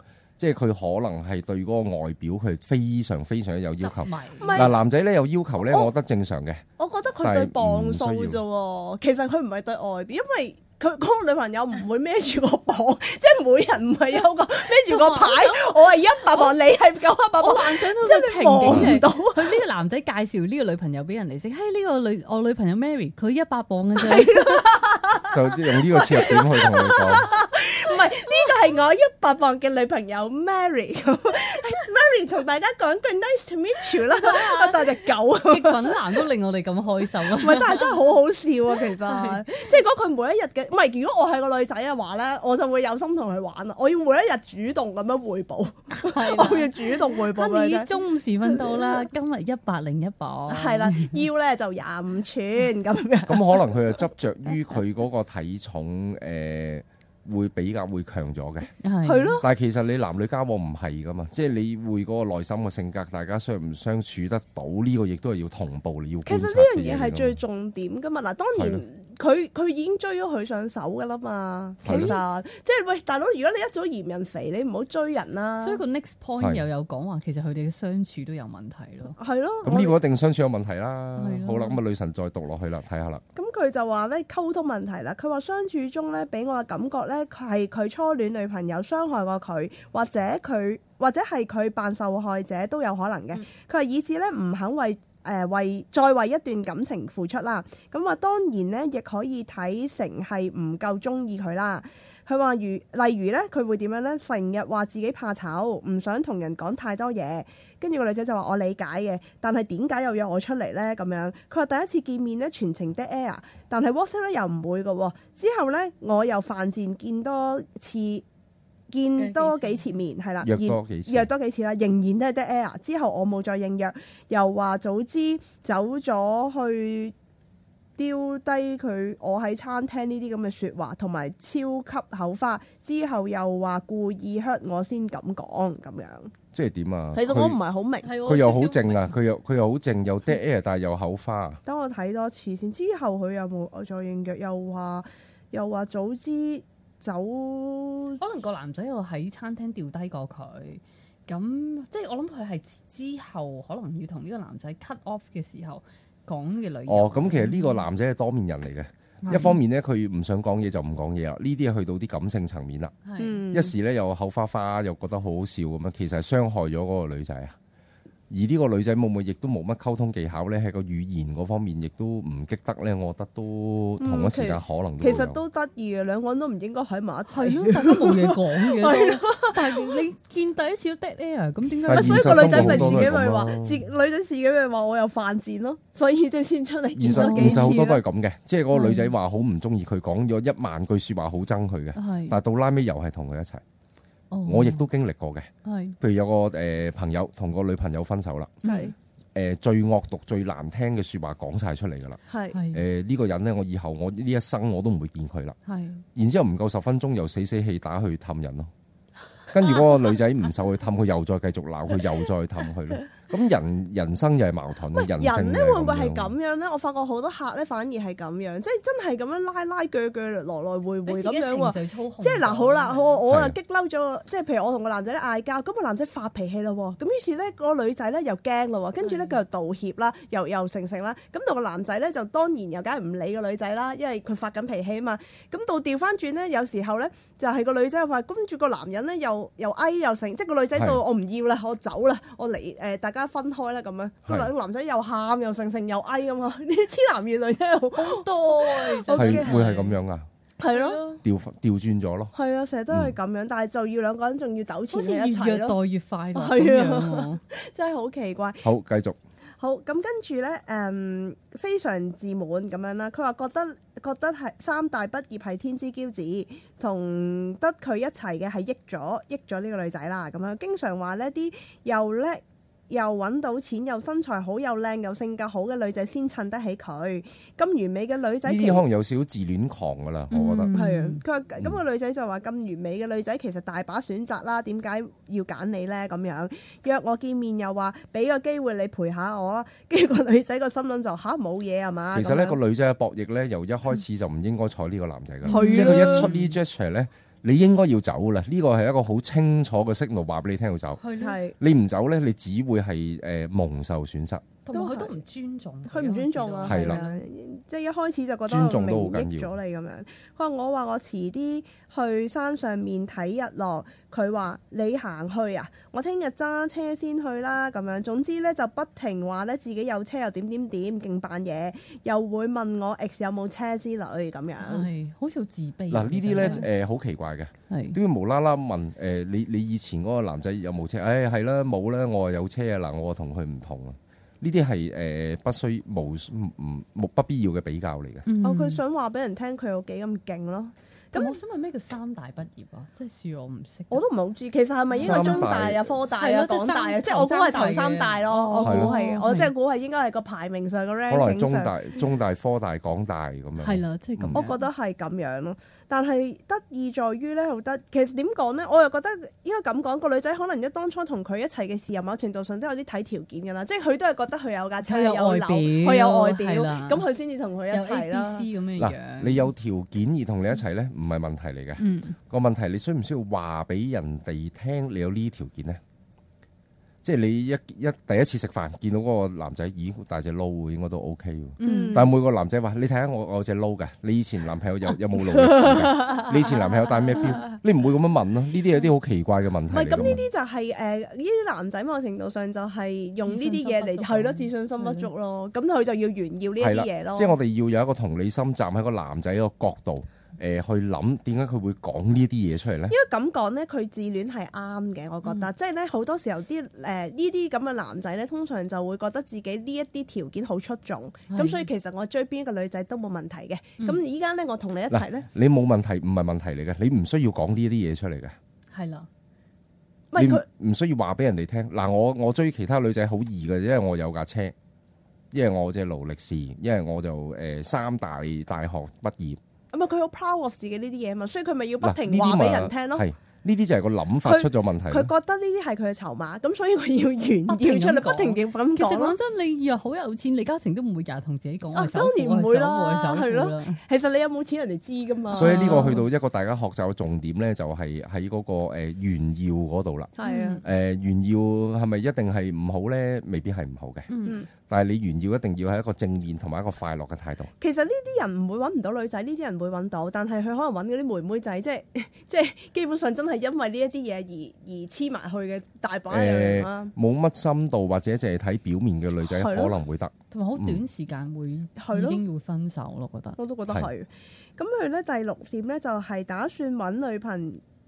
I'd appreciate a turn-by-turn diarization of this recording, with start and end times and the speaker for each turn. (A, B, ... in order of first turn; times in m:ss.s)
0:00.4-0:06.6 A
0:03.8-0:04.7 B
0:04.4-0:04.8 C
0:05.6-0:05.9 C
0:06.8-0:19.6 C
0:07.2-0:08.4 A
0:14.8-0:16.6 B
0:17.4-0:24.6 B
0:18.7-0:19.0 A
0:24.0-0:36.2 C
0:25.3-0:27.3 A
0:34.1-0:38.1 B
0:37.3-0:47.9 C
0:38.8-0:39.5 B
0:46.0-0:51.2 B
0:48.5-0:49.0 C
0:50.5-0:53.8 C
0:53.3-0:58.7 A
0:58.8-0:59.4 B
0:59.0-0:59.4 C
0:59.4-1:07.4 A
1:06.3-1:15.8 C
1:08.6-1:08.8 A
1:11.8-1:12.2 A
1:11.9-1:12.2 B
1:15.6-1:19.2 B
1:19.2-1:20.0 C
1:19.6-1:23.2 A
1:21.2-1:21.8 B
1:23.4-1:58.2 C
1:58.9-2:07.1 C
1:59.2-2:00.0 B
2:00.4-2:01.3 A
2:08.0-2:16.3 C
2:16.5-2:17.6 A
2:17.2-2:18.1 C
2:18.0-2:19.1 B
2:18.2-2:21.6 A
2:21.7-2:28.2 C
2:28.2-2:37.8 B
2:36.9-2:42.9 A
2:39.2-2:39.6 B
2:43.0-2:43.4 B
2:43.2-2:43.7 C
2:43.5-2:47.6 A
2:48.3-2:55.4 A
2:54.0-3:00.0 C
2:57.3-3:03.1 B
3:01.9-3:03.8 A
3:01.9-3:08.0 C
3:07.0-3:13.6 A
3:07.1-3:07.8 B
3:08.7-3:09.1 B
3:12.0-3:12.4 B
3:14.3-3:14.8 B
3:14.4-3:18.6 A
3:15.6-3:16.0 B
3:18.6-3:18.9 B
3:18.6-3:18.9 C
3:19.4-3:22.2 A
3:22.3-3:22.6 C
3:22.5-3:22.8 B
3:22.7-3:25.6 A
3:25.7-3:26.0 B
3:26.2-3:28.7 A
3:29.5-3:36.3 A
3:34.9-4:09.7 C
3:41.1-3:43.2 B
3:43.3-3:43.6 A
3:49.0-3:49.4 B
4:00.8-4:01.0 A
4:08.0-4:10.0 B
4:09.1-4:10.3 A
4:10.6-4:11.0 C
4:10.7-4:11.2 B
4:11.2-4:12.3 A
4:12.3-4:15.8 C
4:14.9-4:17.4 B
4:16.4-4:18.7 C
4:18.6-4:19.2 A
4:19.6-4:38.8 C
4:38.4-4:40.7 A
4:40.3-4:41.2 B
4:40.7-4:52.6 C
4:52.1-5:01.0 A
4:55.4-4:56.6 B
4:55.5-4:56.3 C
5:01.0-5:01.4 B
5:01.2-5:01.6 C
5:01.6-5:04.5 A
5:04.6-5:07.2 B
5:04.7-5:05.2 C
5:05.9-5:24.9 C
5:06.6-5:07.0 A
5:08.5-5:09.5 A
5:24.6-5:26.7 B
5:25.9-5:38.2 A
5:26.4-5:26.7 C
5:27.7-5:28.0 B
5:38.3-5:38.8 B
5:38.4-5:41.4 C
5:41.1-5:44.0 B
5:43.9-5:51.7 C
5:45.0-5:45.5 B
5:45.0-5:46.0 A
5:46.1-5:49.5 B
5:48.6-5:49.0 A
5:51.1-5:54.4 A
5:53.6-5:54.6 B
5:54.3-6:08.5 C
6:04.8-6:07.0 B
6:07.7-6:09.5 B
6:08.8-6:15.8 A
6:11.8-6:12.2 B
6:17.0-6:30.2 A
6:21.6-6:22.1 B
6:21.6-6:22.1 C
6:25.2-6:27.6 C
6:29.7-6:37.4 C
6:33.2-6:35.1 B
6:36.6-6:43.0 A
6:42.9-6:55.3 C
6:51.3-6:51.6 B
6:54.9-6:58.4 A
6:58.7-6:59.1 B
7:00.1-7:00.4 C
7:00.2-7:04.5 A
7:05.3-7:09.4 A
7:09.7-7:13.0 C
7:11.8-7:15.1 A
7:14.2-7:19.2 C
7:17.5-7:23.8 B
7:21.7-7:26.0 C
7:25.3-7:26.0 B
7:25.3-7:34.1 A
7:30.2-7:30.6 C
7:30.2-7:30.6 B
7:34.1-7:34.4 B
7:34.6-7:37.5 A
7:37.6-7:46.9 C
7:46.1-7:50.8 A
7:49.2-7:49.8 C
7:50.3-7:53.4 B
7:51.8-7:52.2 C
7:53.4-7:57.6 C